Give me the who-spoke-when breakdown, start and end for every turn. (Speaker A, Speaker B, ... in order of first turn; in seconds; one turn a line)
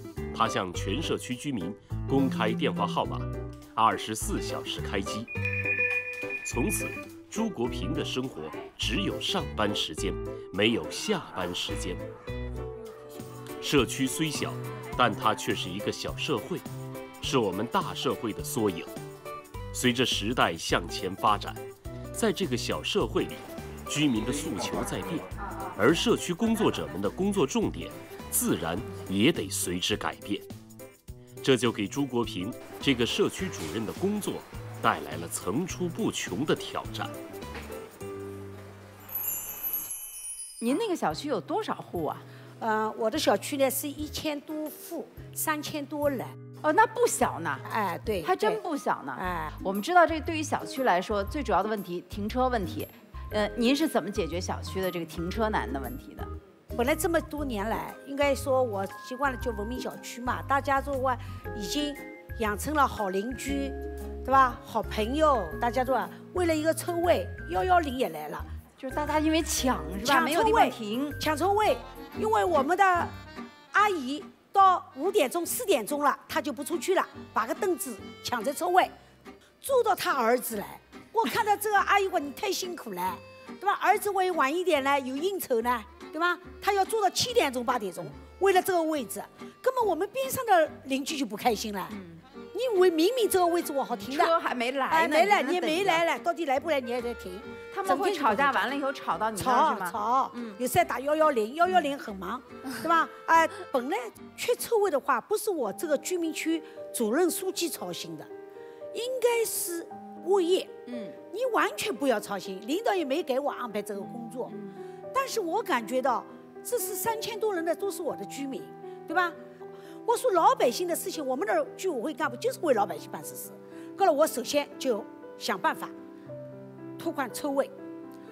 Speaker A: 0.3-5.3
Speaker A: 6.4-12.0
Speaker A: 13.6-16.6
Speaker A: 17.2-18.9
Speaker A: 19.7-21.6
Speaker A: 22.1-30.4
Speaker A: 31.4-37.1
Speaker B: 40.6-42.2
Speaker C: 42.6-46.4
Speaker B: 46.6-47.6
Speaker C: 47.6-48.6
Speaker B: 48.2-56.3
Speaker C: 49.2-49.5
Speaker C: 56.7-68.5
Speaker B: 68.8-71.2
Speaker C: 70.0-73.1
Speaker C: 73.7-78.9
Speaker C: 79.6-92.0
Speaker B: 91.9-92.2
Speaker C: 92.5-94.3
Speaker B: 93.9-96.0
Speaker C: 94.9-98.7
Speaker B: 97.7-100.6
Speaker C: 99.3-108.3
Speaker C: 108.9-110.7
Speaker B: 110.8-111.2
Speaker C: 111.3-114.5
Speaker B: 114.0-114.7
Speaker C: 115.1-119.4
Speaker C: 120.0-125.9
Speaker C: 127.0-127.7